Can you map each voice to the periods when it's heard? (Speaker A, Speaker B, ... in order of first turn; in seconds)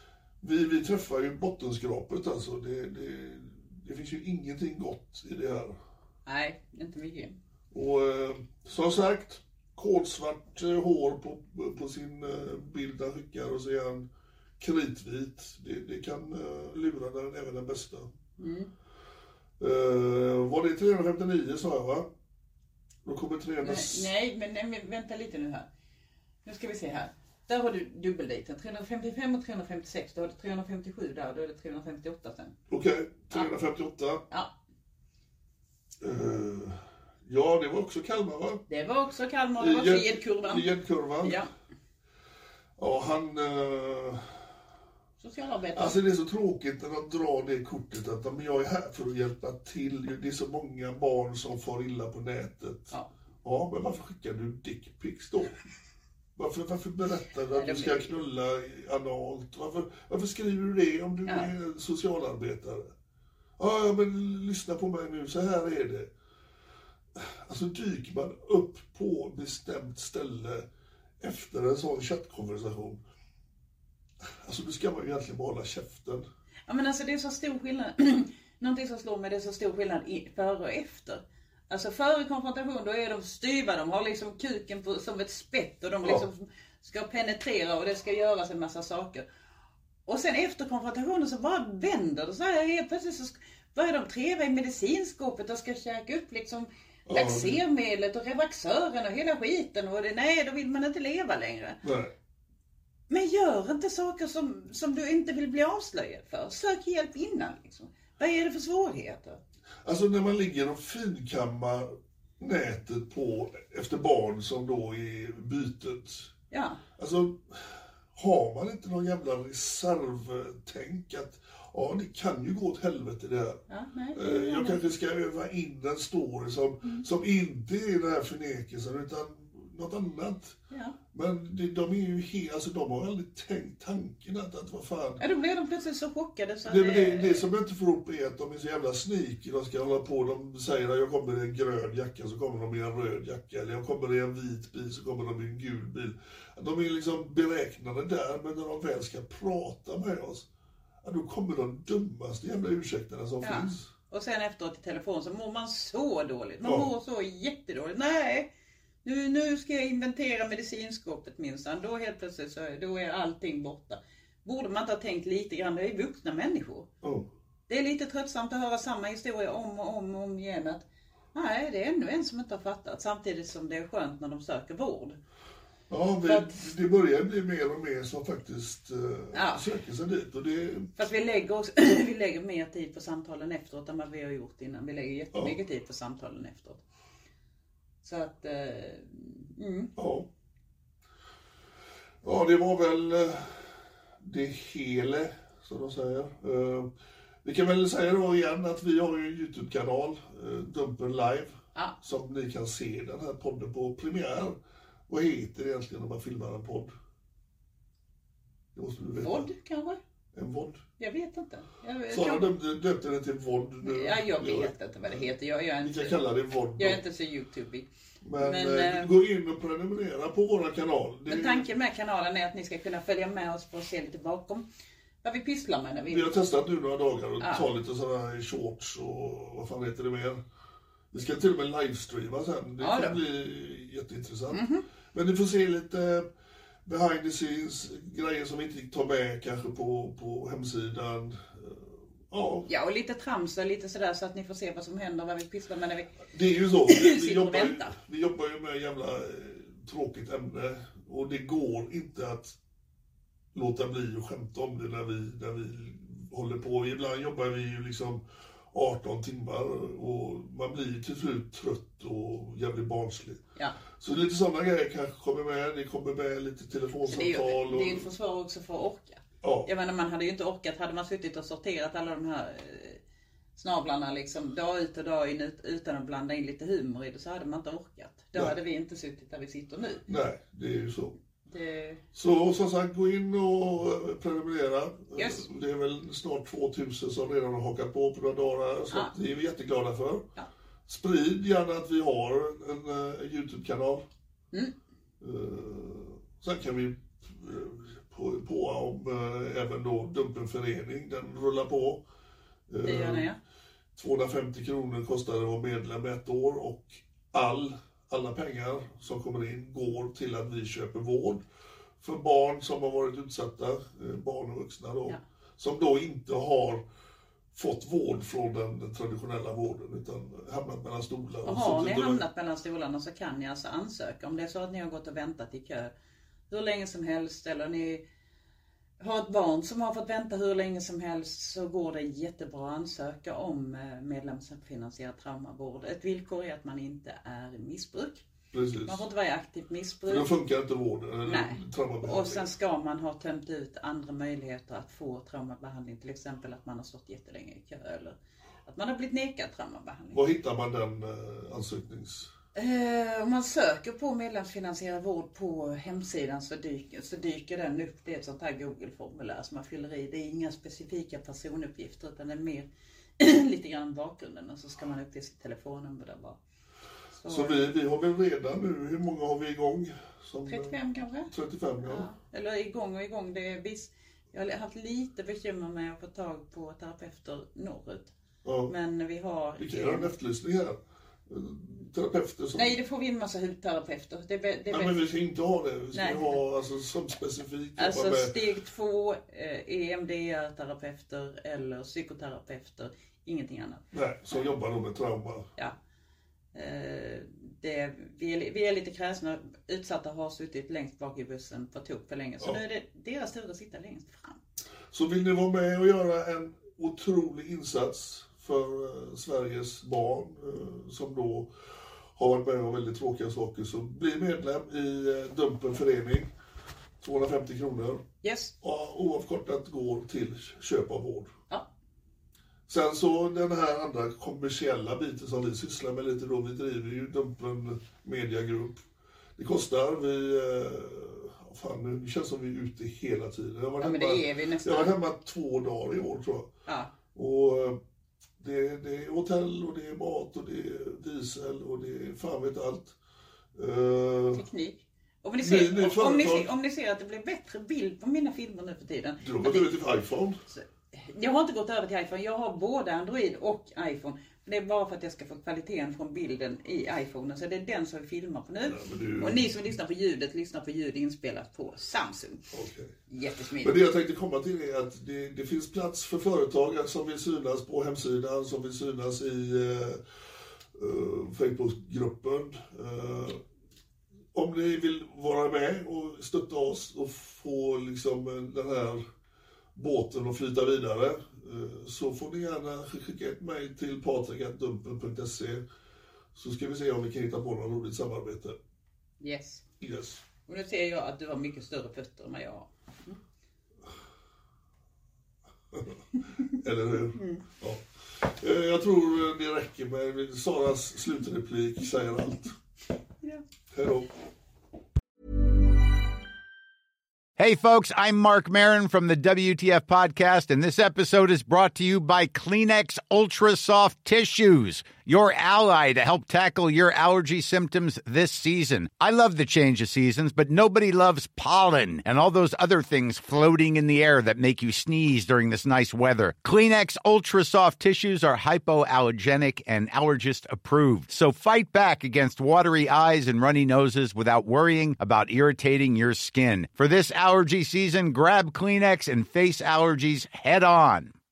Speaker A: 0.4-5.8, 7.7-14.1, 14.6-18.1, 19.6-22.1, 23.1-24.1, 32.7-34.2, 36.0-38.6, 39.6-41.4, 42.8-44.3, 45.8-55.6, 56.4-62.9, 63.6-66.1, 67.2-70.7, 71.2-73.0, 74.4-76.3, 97.1-97.6, 101.8-102.1, 109.8-116.3, 117.0-123.6, 124.1-130.6, 131.1-135.2, 136.7-150.5, 151.0-153.9, 156.6-156.9, 167.0-167.3, 175.9-180.9, 190.0-190.3, 192.2-196.9, 197.4-206.9, 208.8-209.5, 210.3-210.8, 212.1-215.2, 215.8-217.0, 218.2-221.7, 226.1-230.4, 231.1-236.3, 236.8-242.7, 246.3-252.6, 253.5-263.4, 264.0-268.1, 269.4-269.7, 280.1-281.1, 282.1-290.3, 290.9-294.1, 295.2-302.0, 302.7-303.3, 304.0-311.4, 312.0-316.8, 317.5-322.2, 338.5-339.1, 340.1-342.5, 350.1-352.3, 367.3-372.1, 378.4-378.7, 379.6-382.8, 384.7-388.4, 393.9-395.5, 404.9-411.5, 412.2-416.3, 417.0-418.0, 418.6-421.3, 422.7-428.8, 429.4-436.5, 437.1-437.8, 438.4-442.9, 443.6-444.4, 445.4-446.5, 449.2-450.4, 458.6-459.5, 462.5-462.9, 463.6-470.0, 470.8-473.4, 474.3-479.0, 479.8-485.6, 486.4-488.6, 489.8-490.2, 495.7-502.6, 503.7-504.1
Speaker B: 6.3-7.4, 18.4-18.7, 23.6-25.7, 26.4-32.5, 38.7-40.7, 41.2-41.5, 45.2-46.0, 57.5-58.2, 76.7-89.2, 90.1-101.8, 103.1-109.4, 116.5-116.8, 123.7-124.8, 130.7-131.0, 135.2-137.5, 153.4-158.5, 159.0-166.9, 167.7-170.8, 171.3-175.2, 176.3-176.6, 179.3-179.6, 181.0-186.8, 188.0-189.9, 209.2-210.0, 211.0-212.5, 213.8-216.2, 216.8-217.9, 218.4-219.1, 221.3-224.7, 225.2-226.3, 227.4-227.7, 232.8-233.2, 234.5-234.8, 242.7-246.2, 246.8-248.0, 267.0-273.0, 273.6-280.0, 281.5-282.0, 285.1-285.5, 302.8-303.4, 321.4-325.9, 326.5-328.0, 329.0-338.2, 338.9-340.3, 341.2-350.2, 352.6-362.7, 363.2-366.4, 367.1-367.6, 370.5-371.3, 371.8-378.1, 378.7-380.1, 382.5-385.0, 385.9-386.4, 387.8-394.4, 396.5-404.4, 418.2-418.5, 433.8-434.9, 436.7-436.9, 444.3-449.7, 450.5-462.4, 463.1-463.8, 489.2-489.6, 490.5-493.2, 497.1-497.4
Speaker C: 507.4-541.1